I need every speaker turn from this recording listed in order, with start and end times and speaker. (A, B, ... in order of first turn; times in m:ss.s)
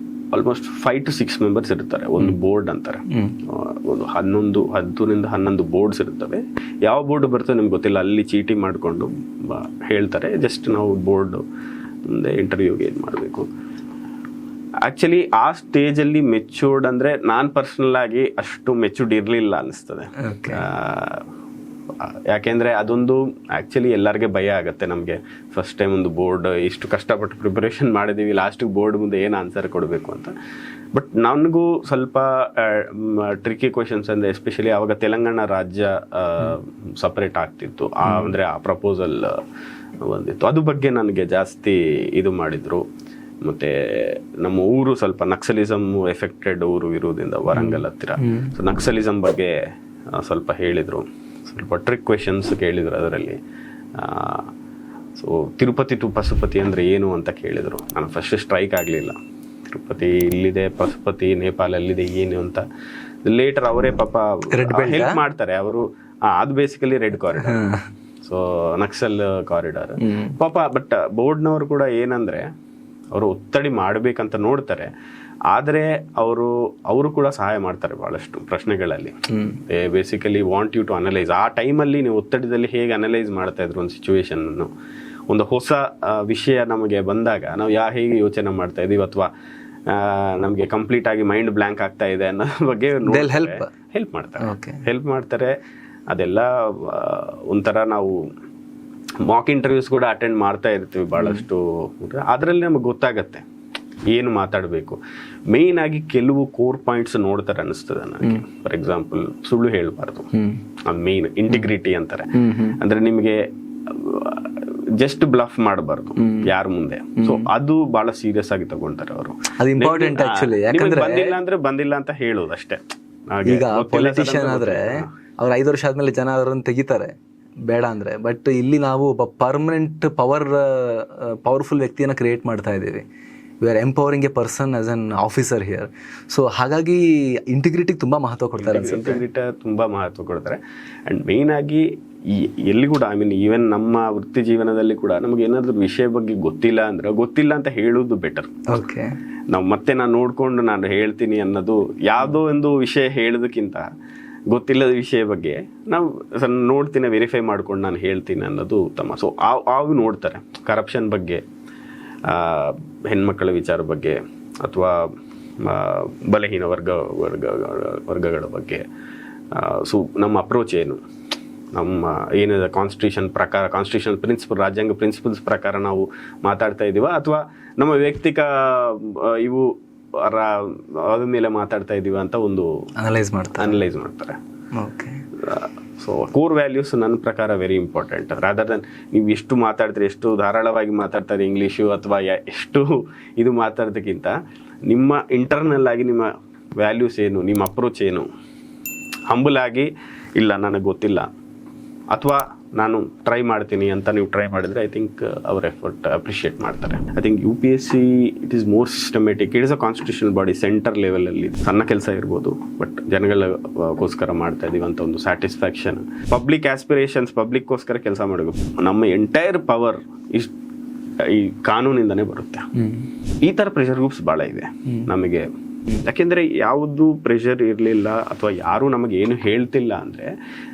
0:00.3-0:11.4 A
0:12.0-0:13.5 A
0:14.8-0:21.2 A
0:20.2-0:20.6 B
0:22.0-0:30.3 A
0:30.9-0:39.4 A
0:40.0-0:42.8 A
0:43.4-0:53.4 A
0:47.5-0:48.5 B
0:53.9-0:54.5 A
0:55.2-1:02.6 A
1:03.2-1:07.7 A
1:04.5-1:05.2 B
1:07.4-1:07.9 B
1:08.2-1:12.5 A
1:10.0-1:10.3 B
1:13.1-1:14.9 A
1:15.5-1:24.7 A
1:19.3-1:19.6 B
1:25.3-1:29.3 A
1:29.8-1:35.6 A
1:33.0-1:33.7 B
1:34.4-1:34.8 B
1:36.1-1:38.2 A
1:39.2-1:43.4 A
1:44.1-1:50.3 A
1:50.3-1:50.6 B
1:50.8-2:05.1 A
1:52.3-1:52.8 B
1:56.2-1:56.5 B
1:57.2-1:57.5 B
1:59.6-2:01.4 B
2:03.4-2:07.1 B
2:07.7-2:13.0 B
2:13.6-2:19.2 B
2:18.6-2:28.6 A
2:28.7-2:29.1 B
2:29.5-2:33.8 A
2:34.5-2:41.4 A
2:42.2-2:48.8 A
2:49.5-2:51.0 A
2:51.7-3:02.8 A
3:03.0-3:03.8 B
3:03.6-3:04.4 A
3:04.8-3:05.2 B
3:05.4-3:14.3 A
3:14.9-3:18.3 A
3:19.3-3:21.3 A
3:22.1-3:40.5 A
3:41.2-3:42.7 A
3:42.8-3:43.0 B
3:43.4-3:45.5 A
3:46.0-3:50.3 A